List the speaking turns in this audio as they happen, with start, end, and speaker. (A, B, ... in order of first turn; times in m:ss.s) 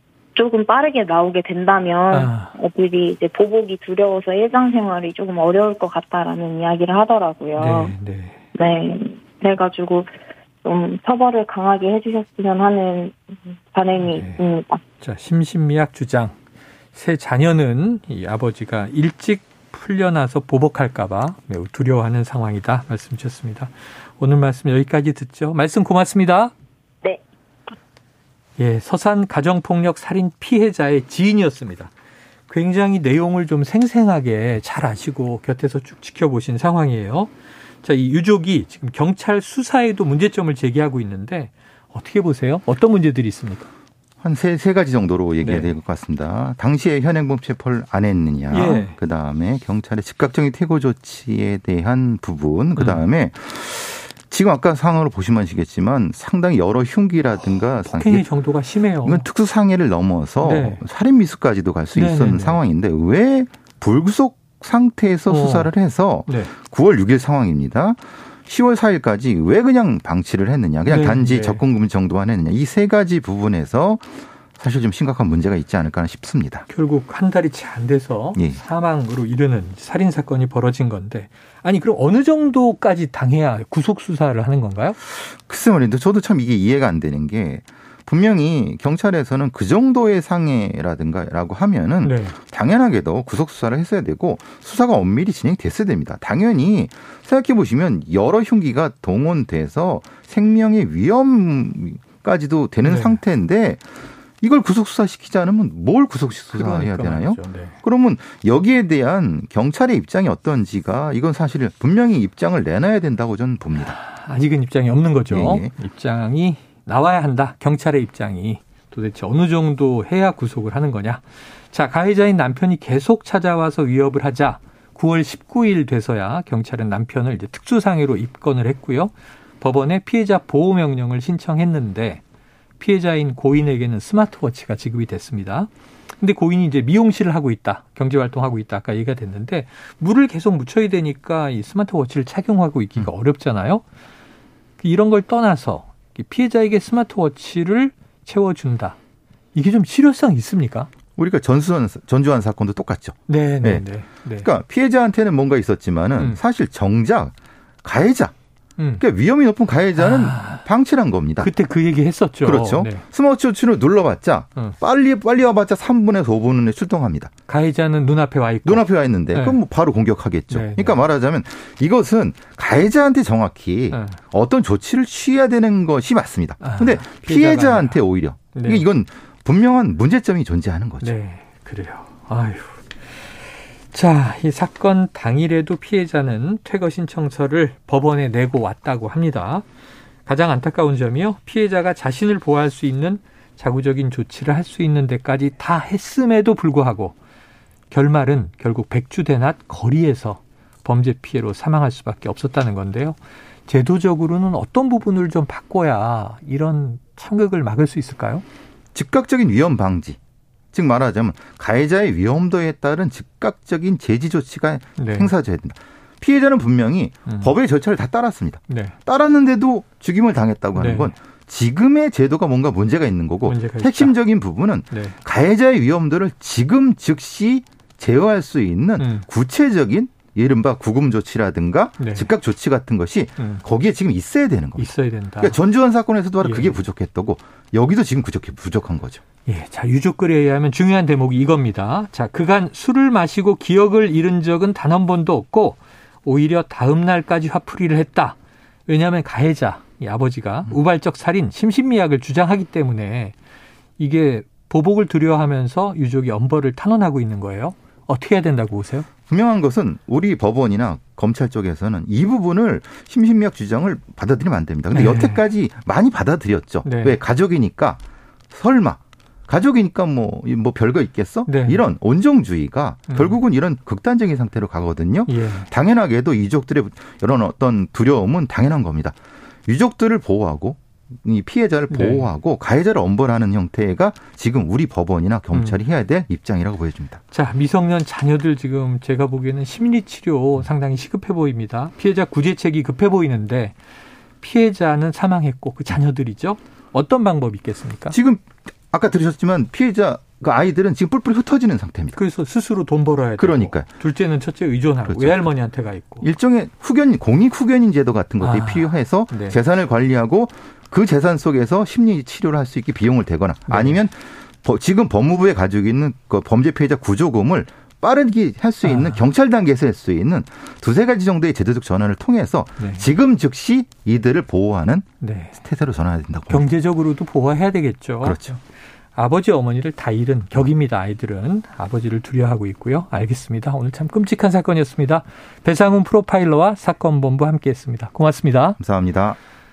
0:00.3-0:07.9 A
0:02.1-0:02.5 B
0:07.6-0:08.4 B
0:08.5-0:14.8 A
0:14.0-0:14.4 B
0:15.0-0:16.4 B
0:16.9-0:26.5 B
0:28.6-0:31.9 B
0:32.5-0:43.7 B
0:44.2-0:58.3 C
0:45.4-0:45.7 B
0:48.5-0:49.0 B
0:52.8-0:53.0 B
0:57.7-0:59.2 B
0:59.0-1:16.6 C
1:00.4-1:00.8 B
1:01.9-1:02.6 B
1:05.3-1:05.7 B
1:06.2-1:06.5 B
1:10.8-1:11.6 B
1:16.7-1:25.0 B
1:25.0-1:43.8 C
1:32.0-1:32.4 B
1:42.8-1:43.2 B
1:44.4-1:54.0 C
1:46.5-1:47.8 B
1:53.8-2:12.2 B
1:55.3-1:55.7 C
2:12.8-2:23.8 B
2:24.8-2:29.0 B
2:29.5-2:30.9 B
2:31.2-2:33.8 C
2:33.3-2:34.5 B
2:34.4-2:37.3 C
2:37.8-2:38.3 C
2:38.8-2:39.0 B
2:39.0-2:41.5 C
2:40.0-2:40.6 B
2:41.4-2:43.0 B
2:42.4-2:47.3 C
2:47.5-2:49.6 B
2:48.6-3:01.1 C
2:50.5-2:51.0 B
2:53.9-2:54.2 B
2:56.6-2:58.0 B
2:58.5-2:58.8 B
3:01.0-3:09.6 B
3:10.2-3:17.2 B
3:17.9-3:28.4 B
3:28.9-3:30.2 C
3:30.7-3:59.2 C
3:35.0-3:35.3 B
3:37.3-3:37.5 B
3:38.7-3:39.0 B
3:40.7-3:41.1 B
3:43.4-3:44.2 B
3:44.9-3:45.2 B
3:49.0-3:49.2 B
3:52.0-3:52.3 B
3:54.8-3:55.6 B
3:56.4-3:56.8 B
3:59.4-4:08.4 B
4:08.9-4:13.4 B
4:14.0-4:19.1 B
4:19.3-4:28.0 C
4:24.9-4:25.4 B
4:26.8-4:27.2 B
4:28.5-4:39.1 C
4:31.5-4:31.8 B
4:33.1-4:33.4 B
4:35.3-4:35.7 B
4:39.7-4:47.2 C
4:41.9-4:42.3 B
4:47.3-4:53.8 B
4:54.4-4:58.2 B
4:58.1-5:02.2 C
5:02.1-5:06.2 B
5:03.4-5:03.9 C
5:05.1-5:05.4 C
5:06.2-5:25.0 C
5:08.4-5:09.6 B
5:13.7-5:14.0 B
5:18.8-5:19.2 B
5:22.8-5:23.1 B
5:25.2-5:25.6 B
5:25.6-5:26.7 C
5:26.5-5:28.6 B
5:28.2-5:28.5 C
5:29.1-5:38.8 B
5:38.8-5:39.4 C